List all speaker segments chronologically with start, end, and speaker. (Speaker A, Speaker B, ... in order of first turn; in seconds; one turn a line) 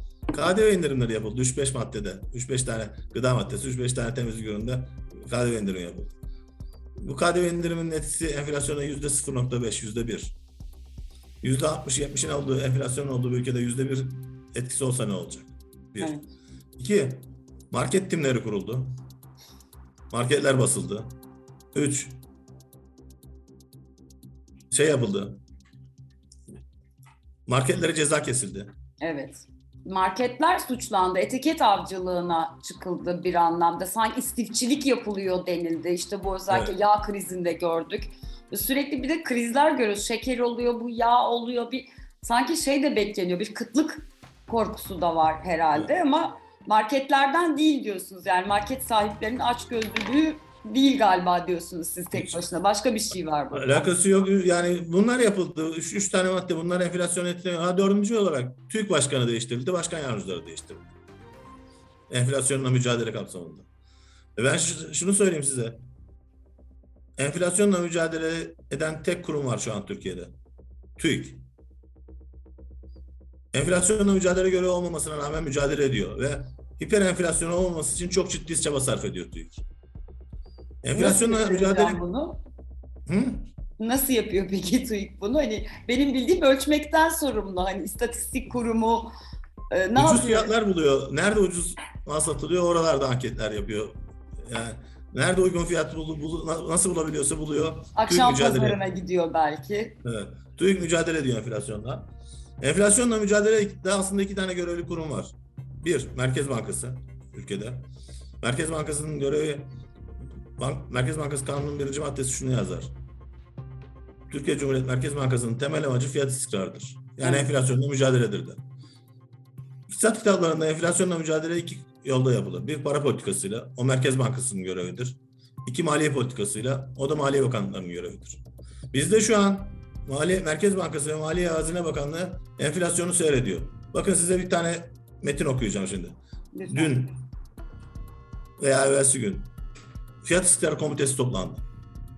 Speaker A: 0.3-6.2
Speaker A: 7.0-10.3
Speaker A: 11.4-16.2
Speaker A: 16.8-18.9
Speaker A: 20.1-21.1
Speaker A: 21.7-22.2
Speaker A: 24.7-25.4
Speaker A: 27.5-28.7
Speaker B: 29.0-53.9
Speaker A: 52.1-52.4
Speaker A: 53.5-60.9
Speaker A: 62.1-63.7
Speaker A: 64.3-65.8
Speaker A: 67.2-70.3
Speaker A: 71.0-71.4
Speaker A: 73.5-79.6
Speaker A: 80.8-82.0
Speaker B: 80.9-82.4
Speaker A: 83.1-83.5
Speaker B: 83.8-89.1
Speaker B: 89.7-90.5
Speaker A: 90.0-98.8
Speaker B: 98.0-100.0
Speaker A: 100.0-107.9
Speaker A: 108.4-109.7
Speaker A: 110.6-112.9
Speaker A: 114.3-118.6
Speaker B: 117.2-117.5
Speaker A: 119.9-136.2
Speaker B: 136.5-137.0
Speaker A: 136.7-137.2
Speaker A: 138.6-139.5
Speaker A: 140.2-141.6